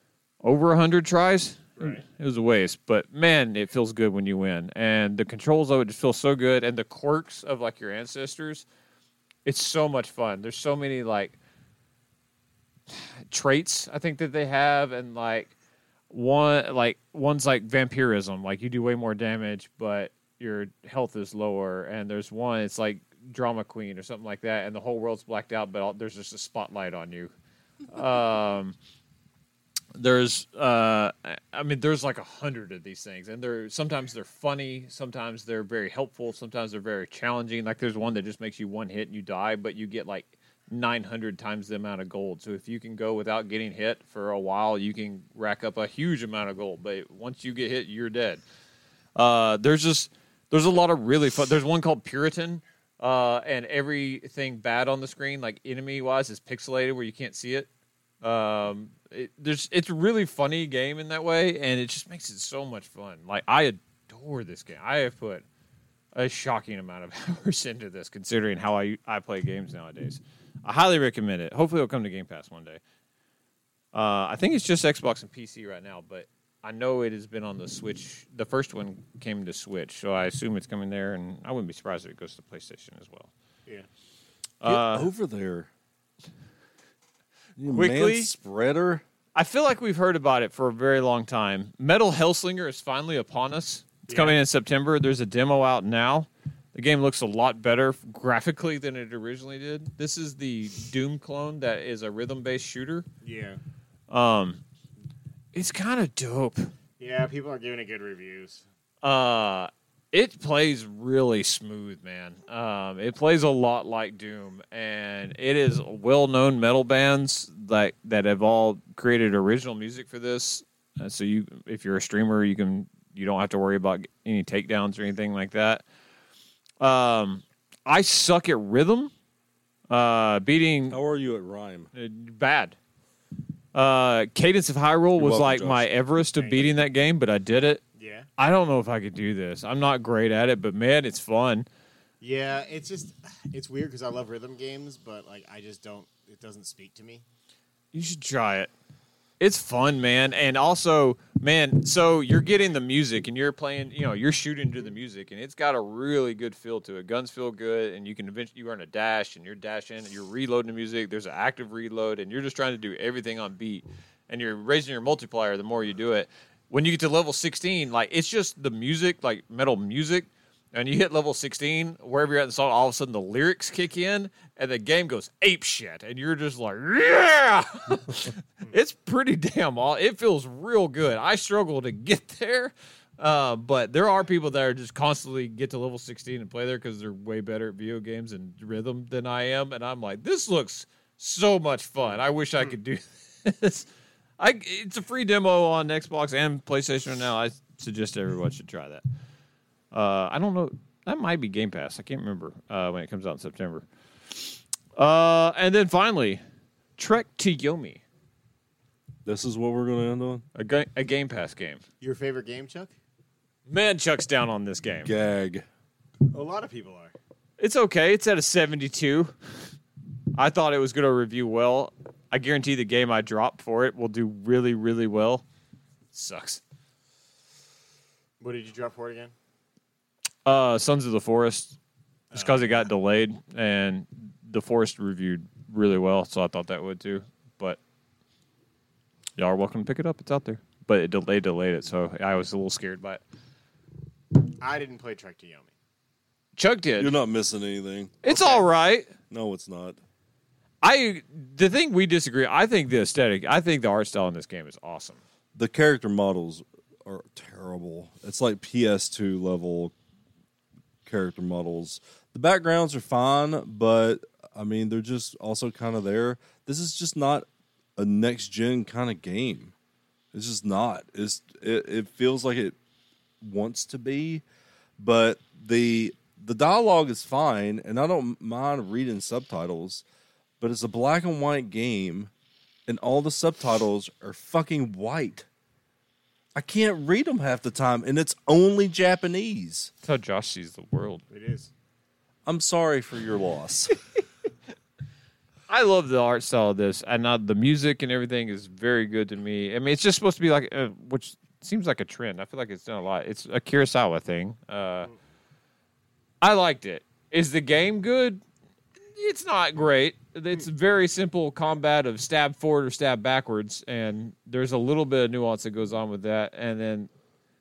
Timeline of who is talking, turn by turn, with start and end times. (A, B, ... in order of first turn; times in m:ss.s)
0:00.4-0:08.7 A
0:09.4-0:11.4 A
0:12.9-0:15.5 A
0:16.1-0:27.3 A
0:27.9-0:28.8 A
0:30.0-0:48.4 A
0:49.2-0:57.7 A
0:58.2-1:05.4 A
1:06.2-1:12.8 A
1:13.9-1:23.3 A
1:24.6-1:25.1 A
1:24.6-1:25.7 B
1:27.6-1:29.0 B
1:27.7-1:28.3 A
1:29.4-1:43.1 A
1:34.1-1:34.4 C
1:43.2-1:43.6 C
1:44.1-1:44.6 A
1:45.5-1:46.7 A
1:47.0-1:48.6 C
1:49.0-2:05.8 A
2:06.8-2:09.1 A
2:09.9-2:11.0 A
2:10.9-2:11.9 B
2:12.0-2:12.8 A
2:13.7-2:17.8 A
2:15.2-2:15.9 B
2:16.4-2:16.7 C
2:18.0-2:18.3 C
2:18.4-2:21.7 A
2:22.2-2:27.2 C
2:27.9-2:28.7 A
2:29.4-3:13.9 A
3:14.4-3:19.0 A
3:19.9-3:23.8 A
3:25.0-3:26.4 A
3:27.0-3:28.0 A
3:29.2-3:30.4 B
3:30.6-3:31.8 A
3:32.0-3:32.9 C
3:33.7-3:35.1 A
3:35.0-3:35.7 B
3:36.3-3:37.2 C
3:37.6-3:39.3 A
3:40.4-3:45.4 A
3:46.1-3:46.6 A
3:48.4-3:49.3 C
3:50.5-3:51.8 A
3:52.3-3:52.8 C
3:52.3-3:57.8 A
3:59.4-4:03.2 A
4:04.6-4:05.7 C
4:06.6-4:07.1 A
4:07.0-4:08.2 B
4:08.2-4:09.1 A
4:08.3-4:08.7 C
4:09.3-4:10.0 B
4:10.8-4:15.2 A
4:15.6-4:19.9 B
4:21.0-4:29.7 B
4:30.3-4:32.8 B
4:33.4-4:34.4 B
4:35.0-4:40.0 B
4:40.6-4:42.3 B
4:42.9-4:45.5 B
4:46.6-4:49.9 B
4:50.0-4:51.2 A
4:51.3-4:51.7 C
4:52.5-4:54.0 B
4:55.7-5:05.1 A
5:06.4-5:08.4 A
5:09.2-5:17.1 A